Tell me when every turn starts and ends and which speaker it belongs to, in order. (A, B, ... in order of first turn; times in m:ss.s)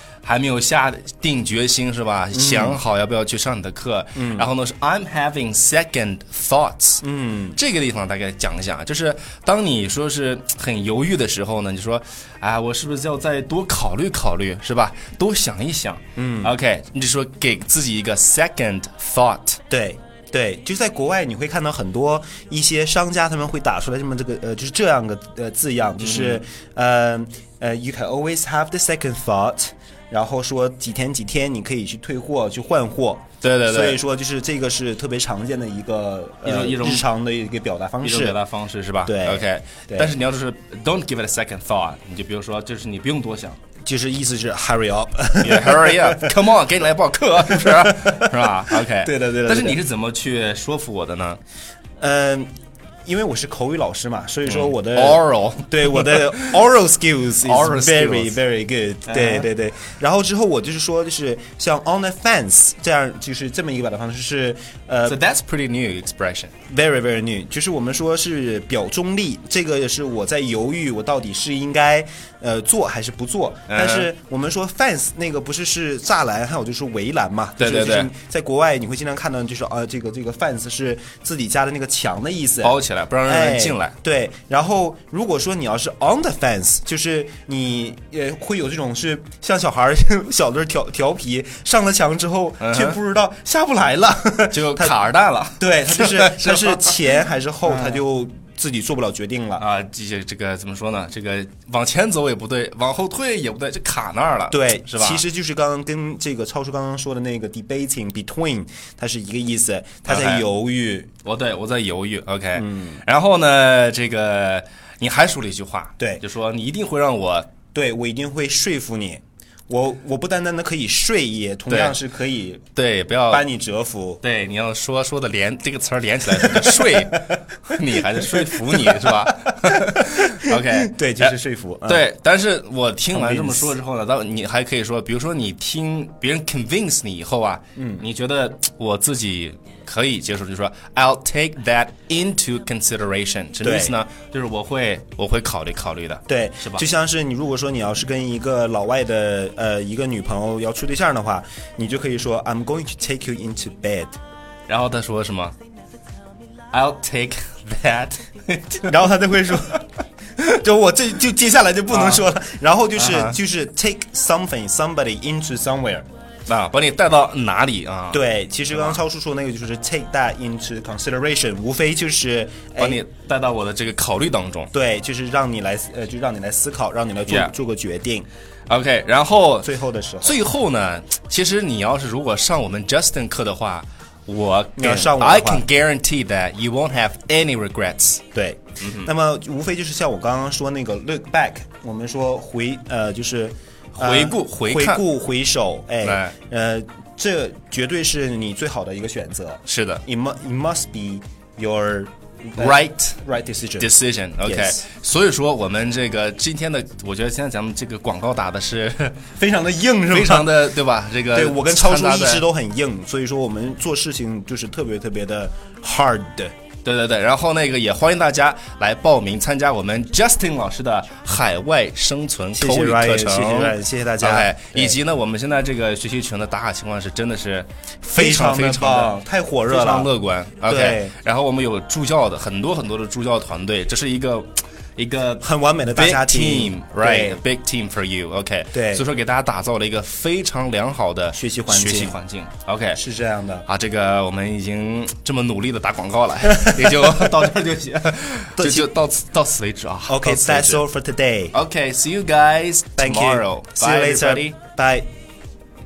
0:00.2-0:19.6 A
0:02.3-0:02.8 B
0:04.2-0:04.5 B
0:07.0-0:07.6 B
0:16.2-0:16.5 B
0:19.7-0:38.4 B
0:26.0-0:26.4 A
0:33.4-0:34.0 A
0:36.4-0:37.1 A
0:38.0-0:43.6 A
0:39.0-0:40.1 B
0:43.8-0:46.4 B
0:45.4-0:51.4 A
0:47.4-0:49.8 B
0:52.0-0:52.5 B
0:53.0-1:05.2 B
0:54.4-0:56.6 A
0:57.4-0:58.4 A
0:59.0-0:59.5 A
1:05.0-1:06.5 A
1:06.7-1:35.0 B
1:13.7-1:14.1 A
1:17.6-1:18.1 A
1:22.6-1:24.0 A
1:32.6-1:33.0 A
1:34.5-1:36.9 A
1:35.6-1:39.6 B
1:37.7-1:38.0 A
1:39.6-1:45.2 A
1:44.5-1:51.1 B
1:50.0-1:50.4 A
1:51.2-1:57.5 A
1:52.5-1:53.0 B
1:57.7-2:02.6 B
2:01.7-2:02.0 A
2:02.7-2:03.4 A
2:03.3-2:04.2 B
2:04.2-2:26.9 A
2:06.3-2:07.2 B
2:08.8-2:09.2 B
2:10.0-2:12.0 B
2:13.1-2:13.7 B
2:17.8-2:18.0 B
2:23.6-2:24.0 B
2:26.3-2:34.2 B
2:34.7-2:35.5 A
2:36.7-2:39.0 A
2:38.8-2:39.8 B
2:40.4-2:46.0 B
2:41.9-2:42.2 A
2:43.0-2:43.4 A
2:46.5-2:49.0 A
2:48.1-2:53.0 B
2:52.8-2:54.7 A
2:54.7-2:58.2 B
2:57.3-2:57.5 A
2:58.7-2:59.7 A
2:59.6-3:00.4 B
3:00.2-3:08.2 A
3:04.8-3:05.6 B
3:08.3-3:23.9 B
3:08.8-3:09.1 A
3:13.9-3:15.0 A
3:16.0-3:16.3 A
3:19.6-3:20.0 A
3:22.6-3:23.2 A
3:23.8-3:29.3 A
3:24.4-3:24.8 B
3:29.4-3:30.6 B
3:30.1-3:32.4 A
3:31.3-3:36.5 B
3:36.8-3:49.2 A
3:42.5-3:45.0 B
3:48.1-3:50.1 B
3:49.7-4:03.0 A
3:50.6-3:51.1 B
3:55.4-3:57.4 B
3:58.7-3:59.0 B
4:01.3-4:02.2 B
4:02.9-4:03.6 B
4:03.6-4:10.8 A
4:06.4-4:07.5 B
4:08.6-4:08.9 B
4:10.1-4:11.5 B
4:11.5-4:14.6 A
4:13.0-4:15.1 B